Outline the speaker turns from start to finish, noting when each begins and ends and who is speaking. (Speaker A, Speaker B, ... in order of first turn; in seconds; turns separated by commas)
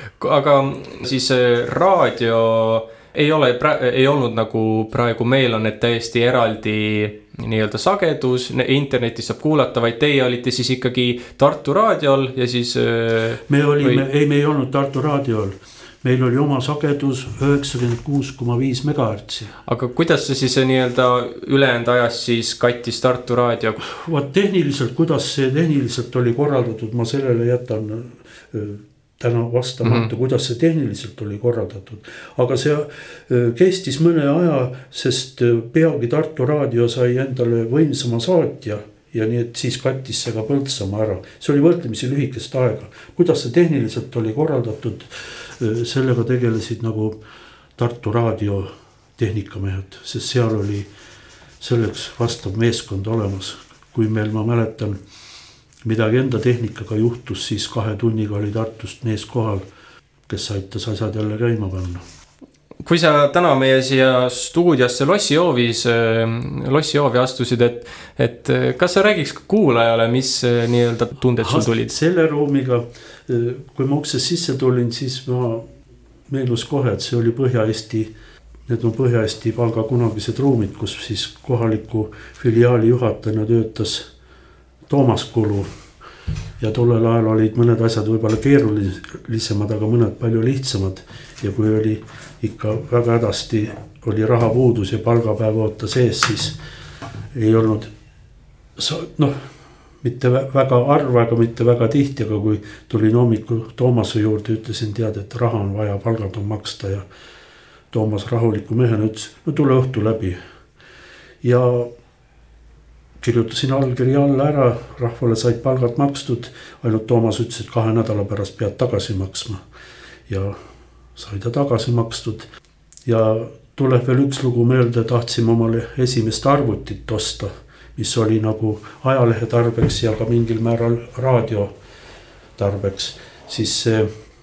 Speaker A: 0.2-14.0, Speaker B: 13.5-19.6, Speaker A: 19.7-23.8, Speaker B: 23.9-47.2, Speaker B: 47.8-50.9, Speaker B: 51.6-55.0, Speaker B: 55.8-59.6, Speaker B: 60.3-62.0, Speaker A: 62.8-71.9, Speaker B: 71.4-75.7, Speaker B: 76.3-78.1, Speaker B: 78.7-84.1, Speaker B: 84.9-85.7, Speaker B: 86.6-96.6, Speaker B: 97.3-97.9, Speaker B: 98.8-99.5, Speaker B: 100.0-107.0, Speaker B: 107.9-110.4, Speaker B: 111.4-111.9, Speaker B: 113.2-119.6, Speaker B: 120.3-120.6, Speaker B: 121.2-122.5, Speaker B: 123.0-131.7, Speaker B: 132.6-134.1